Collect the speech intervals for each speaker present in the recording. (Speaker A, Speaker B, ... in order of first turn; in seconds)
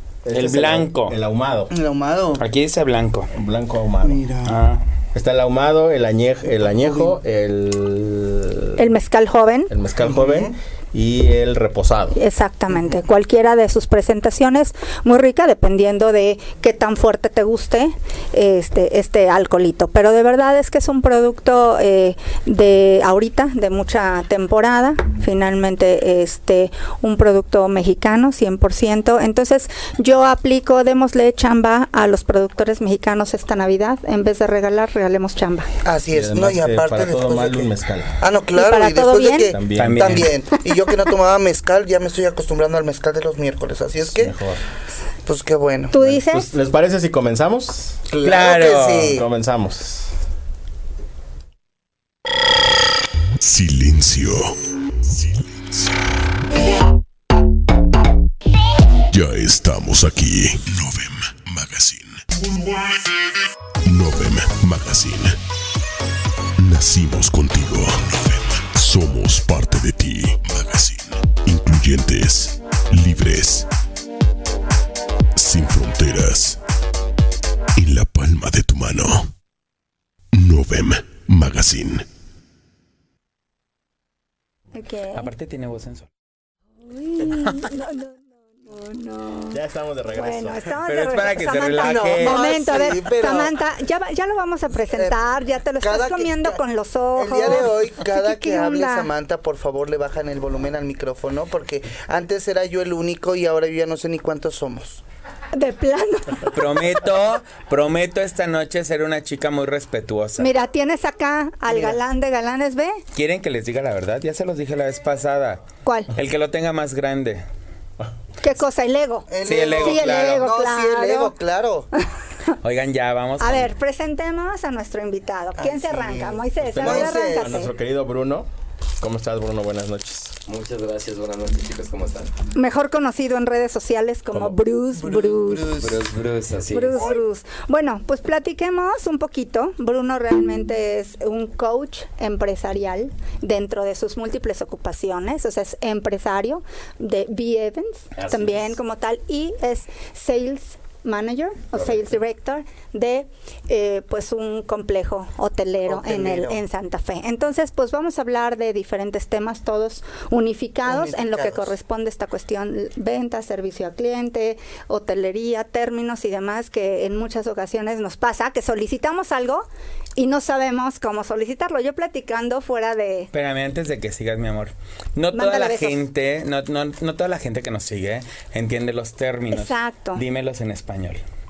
Speaker A: 0.2-1.7, 3.3-4.2, 5.1-8.8, 9.7-12.2, 36.1-38.2, 39.5-40.3, 44.0-44.6, 46.0-48.0, 49.1-50.1, 89.5-90.7, 126.6-128.4, 129.0-130.3, 134.3-134.6
Speaker B: 0.3-1.1, 2.4-3.3, 4.4-4.8, 39.7-40.3, 48.2-49.2, 85.1-86.1, 90.8-92.5, 106.5-110.5, 113.1-117.4, 119.4-120.4, 122.6-123.7, 173.3-181.2
Speaker C: 1.7-2.4, 4.0-4.5, 6.6-7.1, 10.0-10.5, 35.8-44.4, 45.2-45.9, 48.1-49.2, 91.8-93.6, 94.9-95.2, 95.8-96.6, 97.2-105.0, 119.3-121.9, 125.6-127.5, 135.0-136.0, 155.9-156.6, 160.8-161.7
Speaker D: 8.8-9.7, 12.1-35.7, 38.5-39.5, 45.9-46.5, 84.7-85.3, 86.8-99.1, 105.5-106.8, 110.4-113.0, 115.8-116.1, 118.4-121.3, 123.4-127.7, 132.6-135.8, 136.7-173.3, 175.3-176.0, 179.5-180.2
Speaker E: 53.4-54.5, 55.1-55.7, 59.1-62.7, 63.8-65.4, 66.6-73.7, 75.3-76.6, 77.8-79.3, 80.3-82.0
Speaker F: 130.4-132.3, 135.8-137.1, 148.1-148.7